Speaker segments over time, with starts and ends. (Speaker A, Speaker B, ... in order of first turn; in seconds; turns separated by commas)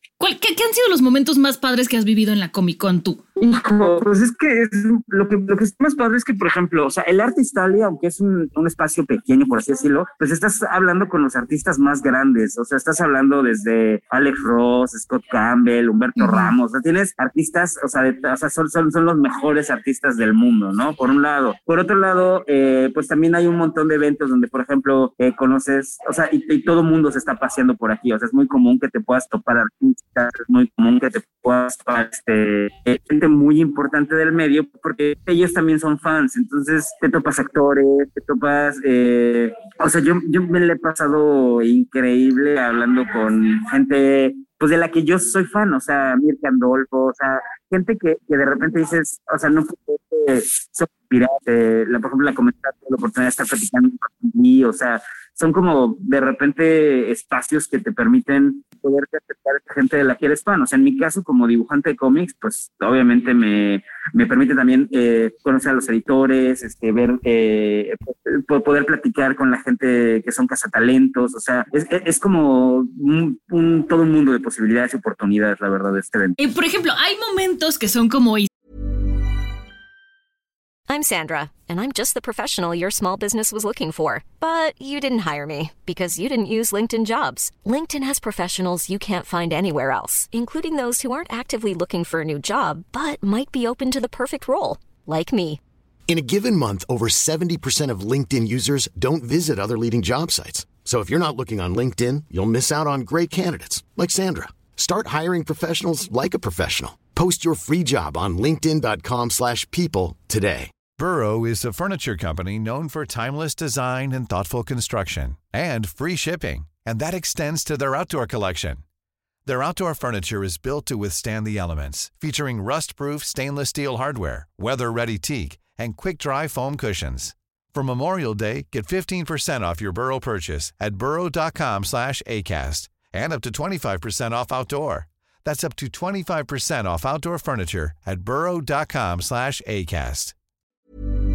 Speaker A: 0.2-3.2, Speaker B: 3.4-76.4, Speaker A: 16.2-16.6, Speaker A: 76.4-78.5, Speaker C: 80.9-95.6, Speaker D: 96.1-110.7, Speaker E: 111.0-118.8, Speaker E: 119.5-140.3